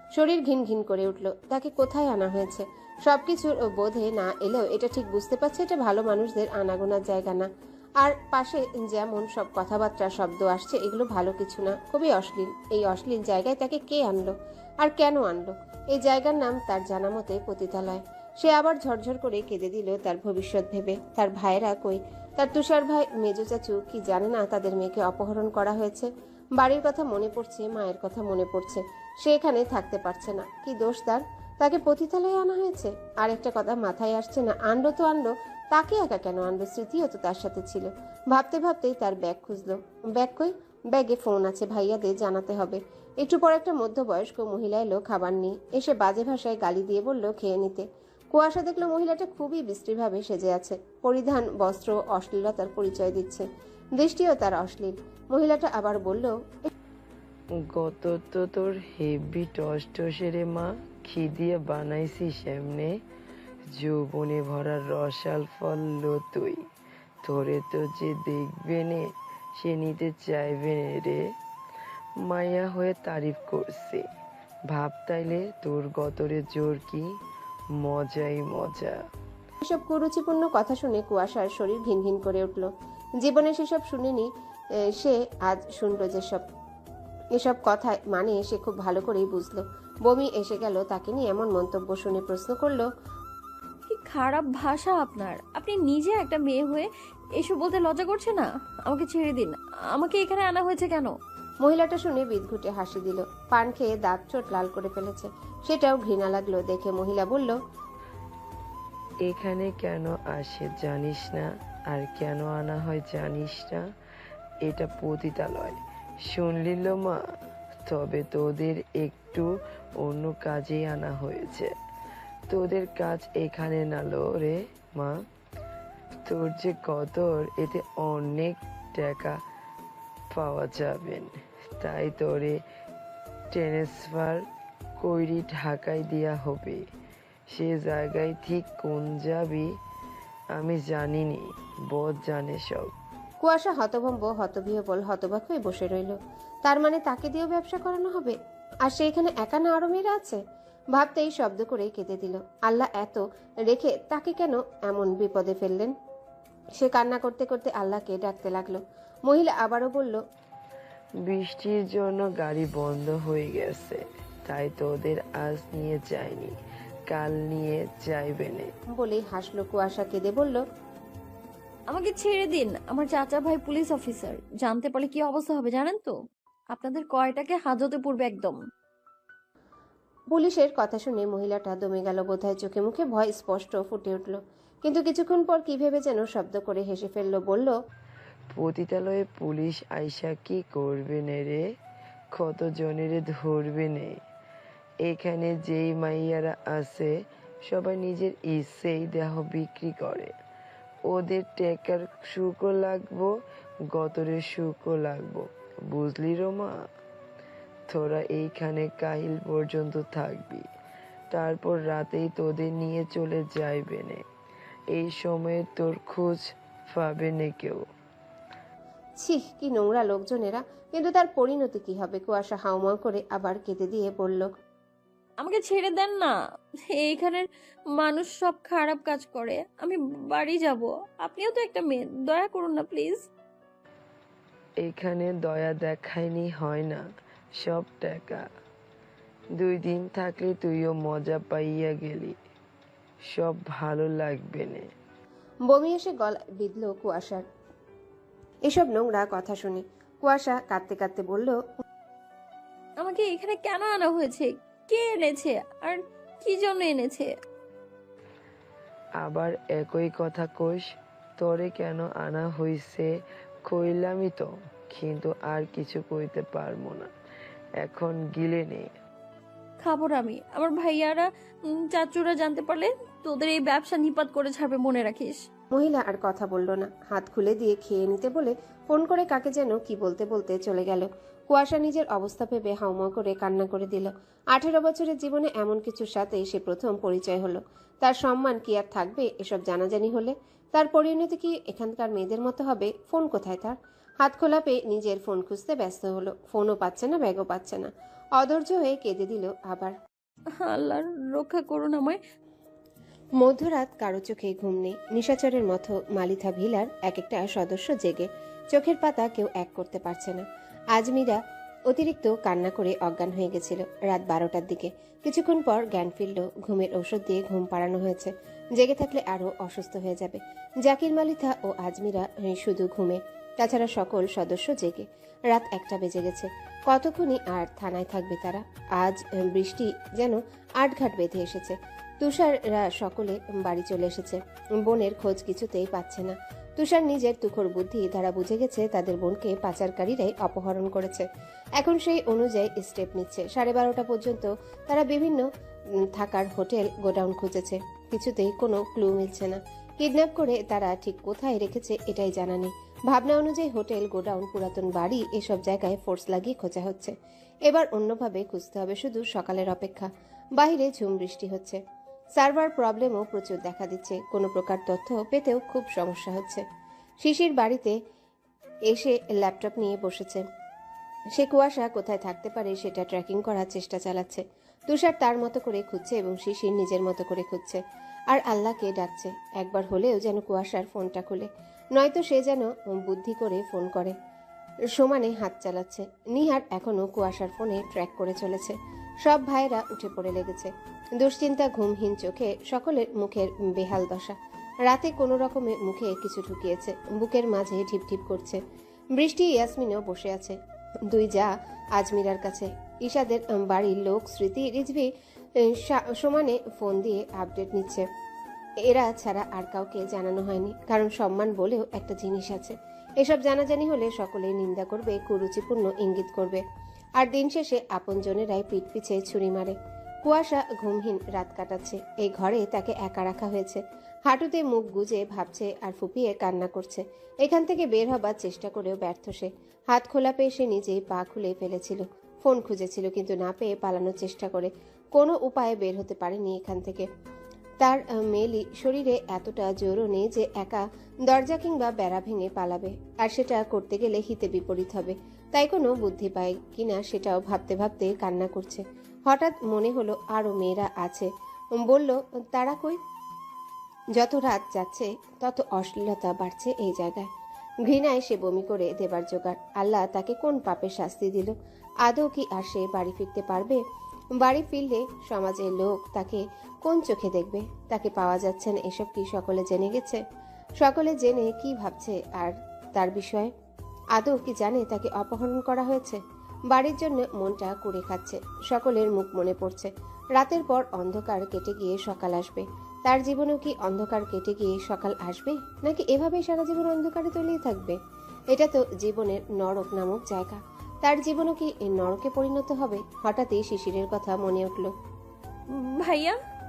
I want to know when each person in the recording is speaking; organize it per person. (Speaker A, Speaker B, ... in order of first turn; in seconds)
Speaker A: 0.2-7.5, 8.0-53.5, 54.0-56.7, 79.6-82.7, 83.2-84.3, 85.0-86.4, 87.4-92.9, 101.6-107.6, 143.4-150.4, 150.9-155.9, 156.8-160.2, 168.9-170.6, 180.3-187.7, 219.2-224.5, 245.7-247.4, 248.7-251.6, 275.7-299.9, 303.4-311.4, 311.9-341.3, 341.8-345.4, 346.2-357.1, 357.7-361.8, 362.4-366.6, 367.2-367.9, 368.9-370.4, 371.4-377.8, 378.3-384.1, 385.0-394.4, 394.9-398.6, 399.1-400.6, 401.1-405.1, 405.7-408.0, 408.9-416.6, 417.2-437.1, 437.8-451.3, 451.8-453.0, 454.2-457.3, 457.9-463.8, 464.4-470.2, 470.8-473.5, 474.2-476.2, 476.7-488.0, 488.5-494.9
Speaker B: 57.7-63.0, 63.7-66.7, 67.2-71.3, 72.2-74.1, 74.7-77.1, 77.8-79.0, 109.2-113.9, 114.6-117.2, 117.9-121.7, 122.5-125.2, 126.3-129.4, 130.3-132.6, 133.5-134.4, 135.0-136.8, 137.5-139.7, 140.5-142.9, 161.2-166.5, 167.1-168.7, 188.5-191.6, 192.3-194.2, 195.0-197.1, 197.7-200.3, 201.1-203.3, 203.9-206.8, 207.9-210.7, 211.3-214.2, 214.9-217.8, 234.8-237.0, 237.6-238.5, 239.6-242.4, 243.3-244.9, 259.2-263.1, 263.7-267.1, 267.8-268.9
Speaker C: 93.9-96.9, 97.4-101.1, 171.9-176.1, 176.7-178.6, 225.4-226.3, 226.9-227.5, 228.0-233.3, 253.0-257.3, 269.8-275.4, 300.6-302.2, 495.8-496.4